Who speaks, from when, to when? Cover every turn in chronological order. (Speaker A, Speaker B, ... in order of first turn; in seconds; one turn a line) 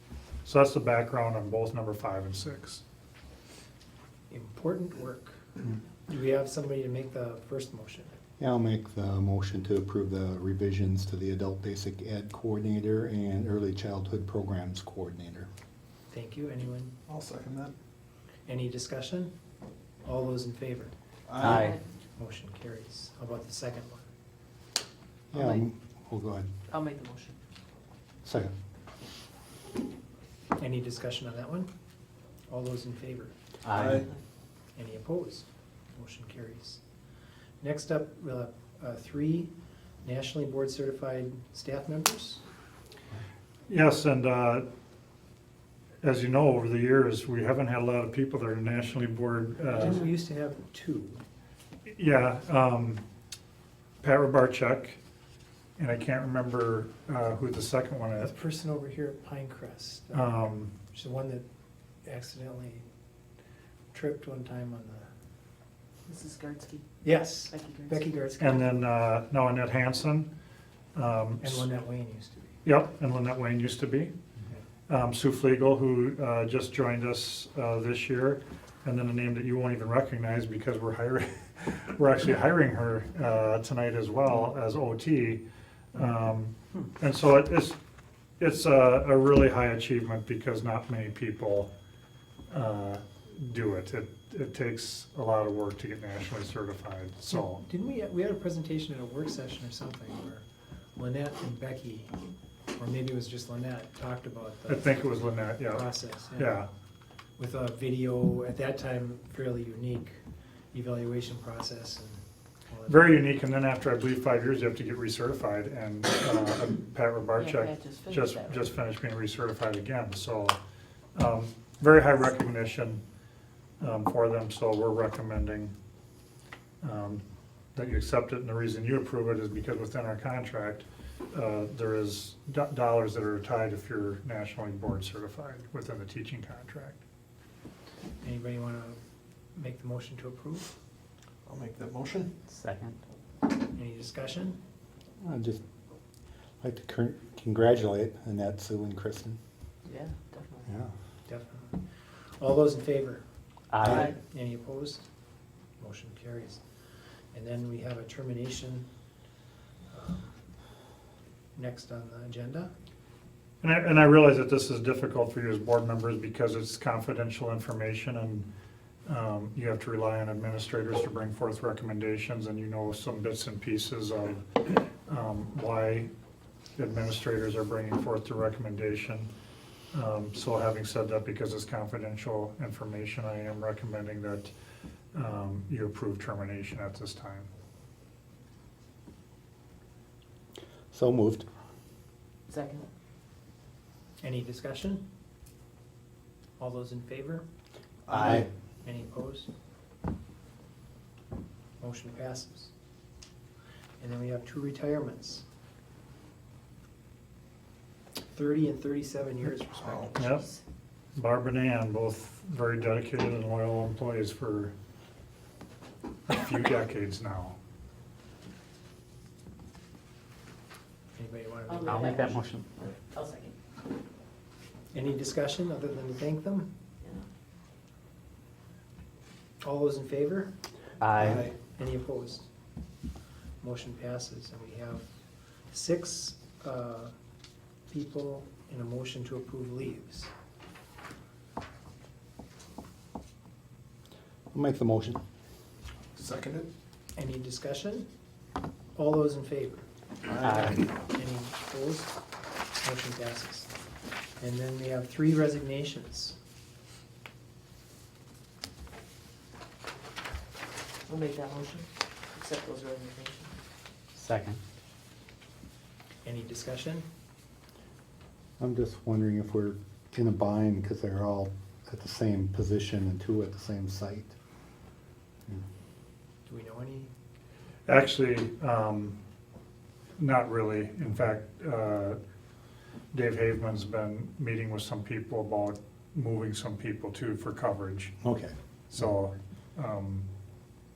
Speaker A: 0.4-2.8
Speaker B: 4.3-5.4
Speaker B: 6.1-8.1
Speaker C: 8.4-15.5
Speaker B: 16.1-16.9
Speaker D: 17.1-17.7
Speaker B: 18.5-19.3
Speaker B: 20.0-20.9
Speaker D: 21.3-21.7
Speaker E: 21.4-21.8
Speaker F: 21.4-21.8
Speaker B: 22.2-24.1
Speaker C: 25.3-26.5
Speaker F: 25.3-25.6
Speaker F: 26.7-27.4
Speaker C: 28.2-28.5
Speaker B: 30.6-31.7
Speaker B: 32.5-33.3
Speaker E: 33.6-34.0
Speaker D: 33.7-34.1
Speaker B: 34.8-36.8
Speaker B: 37.6-39.5
Speaker B: 40.0-42.4
Speaker A: 43.7-44.6
Speaker A: 46.0-50.0
Speaker B: 49.6-51.2
Speaker A: 51.9-53.0
Speaker A: 54.0-55.0
Speaker A: 55.8-58.3
Speaker B: 58.2-61.5
Speaker A: 60.1-60.7
Speaker B: 62.0-62.9
Speaker B: 63.9-65.1
Speaker F: 66.1-66.8
Speaker B: 67.0-68.7
Speaker F: 67.5-68.3
Speaker A: 68.4-70.3
Speaker A: 70.9-71.7
Speaker B: 71.4-72.5
Speaker A: 72.6-74.1
Speaker A: 74.9-85.4
Speaker A: 85.9-87.8
Speaker A: 88.4-91.7
Speaker A: 92.5-97.6
Speaker B: 97.3-100.4
Speaker B: 101.0-102.1
Speaker B: 102.8-105.1
Speaker A: 104.7-106.7
Speaker B: 105.6-106.6
Speaker B: 107.4-110.2
Speaker B: 110.7-112.2
Speaker B: 112.7-113.2
Speaker A: 112.9-120.6
Speaker F: 117.3-118.7
Speaker A: 121.1-123.0
Speaker A: 123.8-125.7
Speaker A: 126.8-127.2
Speaker A: 127.7-137.0
Speaker B: 138.2-139.0
Speaker B: 139.6-140.7
Speaker D: 141.4-142.3
Speaker E: 142.5-142.9
Speaker B: 143.7-144.6
Speaker C: 145.2-145.6
Speaker C: 146.6-149.4
Speaker F: 149.8-150.7
Speaker C: 150.7-150.9
Speaker B: 151.2-153.2
Speaker E: 153.7-154.1
Speaker B: 153.8-155.0
Speaker F: 153.8-154.1
Speaker B: 155.8-156.6
Speaker B: 157.3-158.8
Speaker B: 159.9-160.4
Speaker B: 161.6-162.7
Speaker A: 163.6-168.5
Speaker A: 169.1-176.1
Speaker A: 176.8-179.3
Speaker A: 179.9-184.5
Speaker A: 185.1-187.5
Speaker C: 190.9-191.5
Speaker F: 192.5-192.9
Speaker B: 194.2-195.0
Speaker B: 196.6-197.4
Speaker B: 198.1-199.5
Speaker B: 201.8-202.7
Speaker B: 204.0-205.4
Speaker B: 208.3-210.2
Speaker D: 209.7-210.1
Speaker A: 210.2-210.5
Speaker F: 210.2-210.5
Speaker A: 211.2-214.7
Speaker A: 216.3-217.6
Speaker B: 221.1-222.3
Speaker F: 221.7-223.5
Speaker E: 221.9-222.6
Speaker B: 224.9-226.7
Speaker B: 229.6-230.5
Speaker E: 231.0-231.5
Speaker D: 231.2-231.5
Speaker B: 231.8-232.4
Speaker B: 233.6-235.0
Speaker B: 235.7-237.1
Speaker B: 237.9-240.3
Speaker C: 244.5-245.2
Speaker D: 246.1-246.7
Speaker B: 247.2-248.1
Speaker B: 248.9-249.9
Speaker D: 250.3-250.8
Speaker E: 250.4-250.9
Speaker B: 251.0-252.1
Speaker B: 252.8-253.7
Speaker B: 254.4-256.4
Speaker F: 261.1-263.5
Speaker E: 264.2-264.6
Speaker B: 266.2-267.0
Speaker C: 268.6-274.3
Speaker B: 276.4-277.1
Speaker A: 277.9-279.1
Speaker A: 280.2-282.2
Speaker A: 283.1-288.2
Speaker C: 288.2-288.5
Speaker A: 288.9-290.3